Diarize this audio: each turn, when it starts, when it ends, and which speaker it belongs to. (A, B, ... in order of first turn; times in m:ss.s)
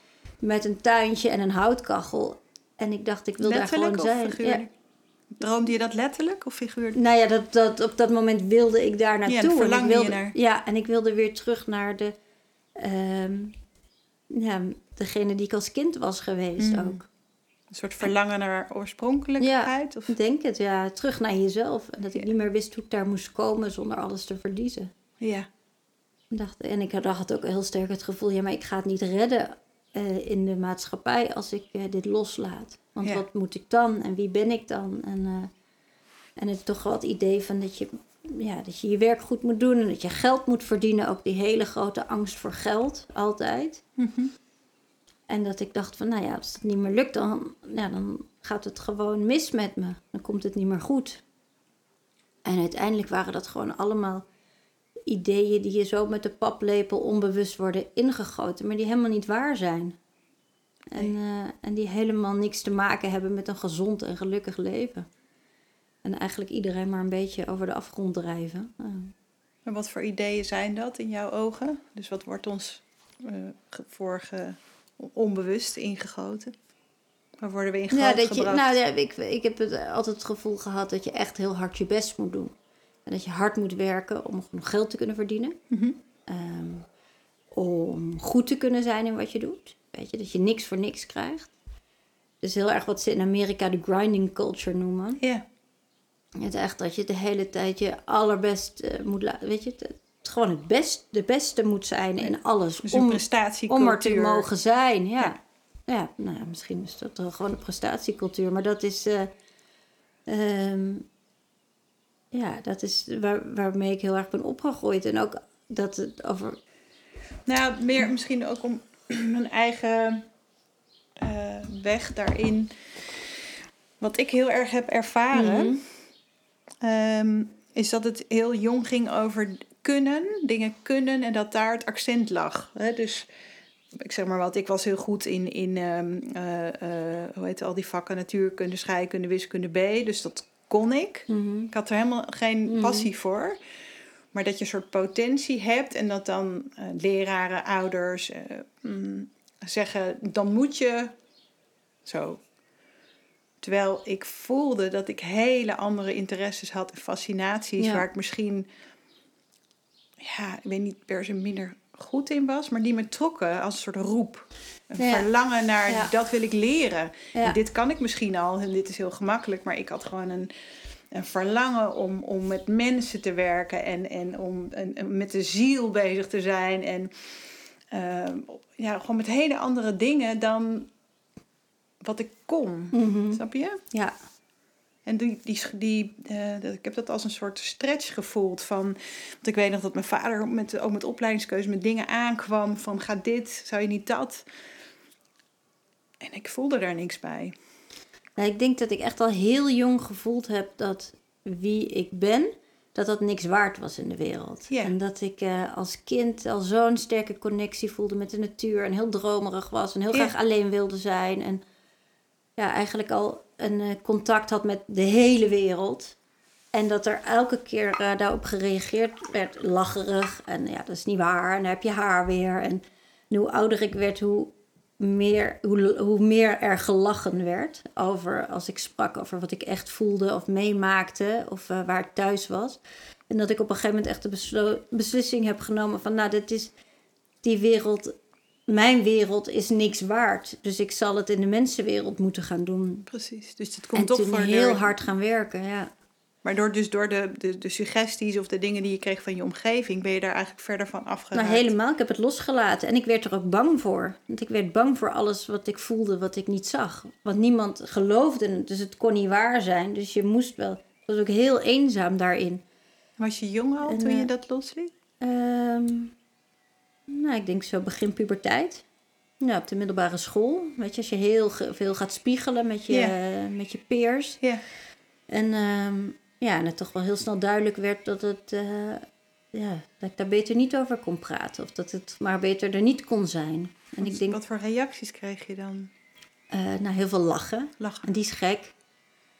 0:00.4-0:04.6 A
0:03.4-0:04.7 B
0:05.3-0:07.0 B
0:06.9-0:12.1 A
0:09.2-0:10.4 B
0:12.8-0:13.6 A
0:14.3-0:17.0 A
0:16.6-0:17.0 B
0:17.7-0:20.1 B
0:19.4-0:24.9 A
0:25.2-0:25.5 B
0:26.3-0:35.5 A
0:36.4-0:43.8 A
0:44.0-0:44.3 B
0:45.3-0:51.2 A
0:52.4-0:54.2 A
0:55.1-1:00.0 A
1:00.9-1:05.1 A
1:06.0-1:09.1 A
1:09.6-1:16.5 B
1:17.4-1:18.8 B
1:17.9-1:22.5 A
1:23.0-1:25.6 A
1:25.7-1:26.0 B
1:26.3-1:26.8 A
1:27.5-1:31.5 A
1:32.4-1:35.2 A
1:36.4-1:49.3 A
1:42.2-1:44.5 B
1:50.3-1:51.0 A
1:52.3-1:56.6 A
1:57.4-2:00.3 B
2:01.2-2:02.7 B
2:04.0-2:05.9 B
2:05.3-2:05.8 A
2:06.8-2:13.3 B
2:13.9-2:23.6 B
2:21.3-2:21.7 A
2:22.7-2:23.1 A
2:24.3-2:31.2 B
2:32.0-2:32.4 B
2:33.6-2:38.6 B
2:37.8-2:38.0 A
2:40.2-2:50.5 B
2:45.0-2:45.3 A
2:45.9-2:46.1 A
2:51.1-2:57.4 B
2:57.9-3:00.9 B
3:02.0-3:03.8 B
3:02.9-3:04.1 A
3:05.0-3:14.4 B
3:16.2-3:17.5 B
3:18.4-3:31.6 A
3:24.7-3:24.9 B
3:32.6-3:36.2 A
3:36.7-3:56.7 A
3:57.4-3:58.1 A
3:58.7-4:03.1 A
4:03.1-4:04.9 B
4:03.9-4:05.9 A
4:06.4-4:11.7 B
4:11.3-4:22.6 A
4:23.2-4:24.9 B
4:23.8-4:24.3 A
4:25.2-4:26.1 A
4:27.1-4:28.8 A
4:29.4-4:34.4 A
4:32.9-4:33.1 B
4:35.3-4:44.4 A
4:44.0-4:45.9 B
4:46.5-4:48.7 A
4:47.8-4:48.1 B